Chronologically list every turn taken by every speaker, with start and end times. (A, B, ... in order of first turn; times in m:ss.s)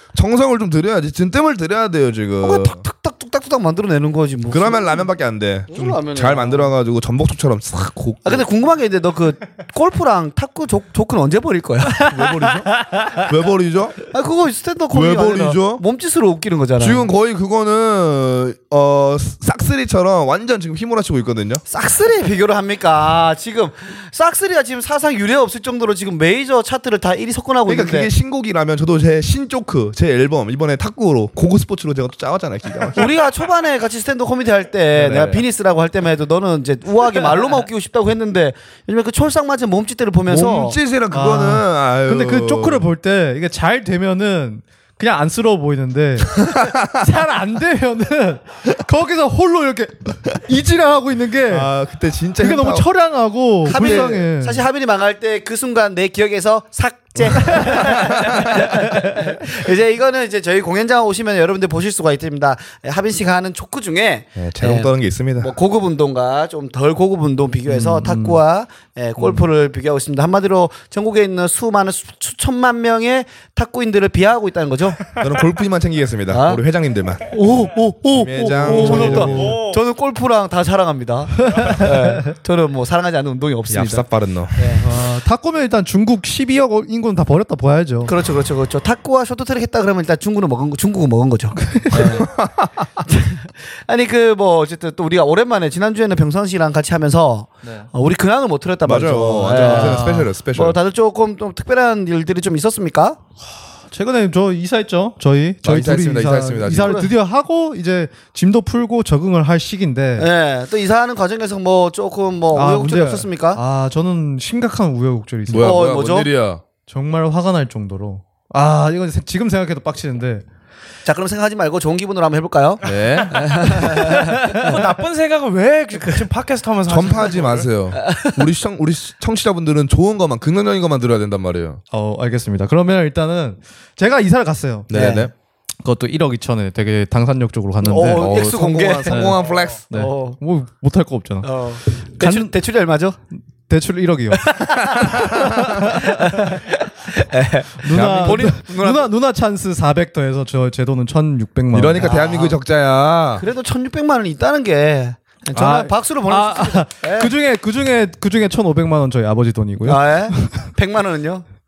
0:00.1-0:02.8 A
0:02.4-0:05.1 B
0:04.5-0:08.4 A
0:05.7-0:06.7 B
0:08.2-0:12.1 B
0:12.0-0:14.1 A
0:12.2-0:13.1 C
0:14.1-0:17.1 B
0:14.9-0:15.8 A
0:16.8-0:21.6 A
0:21.7-0:28.1 B
0:27.7-0:33.1 A
0:33.0-0:40.8 B
0:34.9-0:35.4 A
0:40.3-0:42.8 A
0:41.1-0:51.7 C
0:46.6-0:46.9 A
0:51.5-0:52.9 A
0:52.4-0:54.6 C
0:53.7-1:15.0 B
0:53.8-0:54.0 A
0:57.5-0:58.0 A
1:04.4-1:05.5 A
1:07.7-1:08.4 C
1:15.2-1:17.4 A
1:16.3-1:16.6 B
1:17.3-1:24.9 B
1:18.1-1:19.5 A
1:18.4-1:19.6 C
1:19.0-1:19.8 D
1:21.6-1:22.2 C
1:23.7-1:24.7 A
1:24.8-1:28.1 C
1:28.1-1:32.3 B
1:31.6-1:32.2 C
1:31.9-1:32.9 A
1:33.0-1:43.2 B
1:38.8-1:40.8 A
1:39.6-1:40.3 C
1:43.9-1:50.3 C
1:45.6-1:47.0 A
1:46.8-1:47.1 B
1:50.2-1:53.6 B
1:52.5-1:55.9 C
1:55.5-1:56.6 A
1:55.6-1:56.3 B
1:56.9-2:00.4 C
2:01.0-2:04.5 B
2:02.8-2:04.1 A
2:04.0-2:04.8 C
2:04.5-2:07.7 D
2:06.9-2:11.8 A
2:07.9-2:08.5 B
2:11.9-2:14.9 C
2:14.9-2:15.3 A
2:14.9-2:15.3 B
2:15.8-2:21.5 C
2:17.8-2:20.4 B
2:18.1-2:19.9 A
2:19.4-2:19.8 D
2:21.4-2:23.2 B
2:22.2-2:22.5 C
2:23.6-2:26.6 C
2:24.4-2:29.1 B
2:27.8-2:32.1 C
2:27.9-2:28.5 A
2:31.7-2:33.4 A
2:32.0-2:32.6 B
2:33.4-2:37.3 B
2:35.6-2:40.7 C
2:39.8-2:41.4 B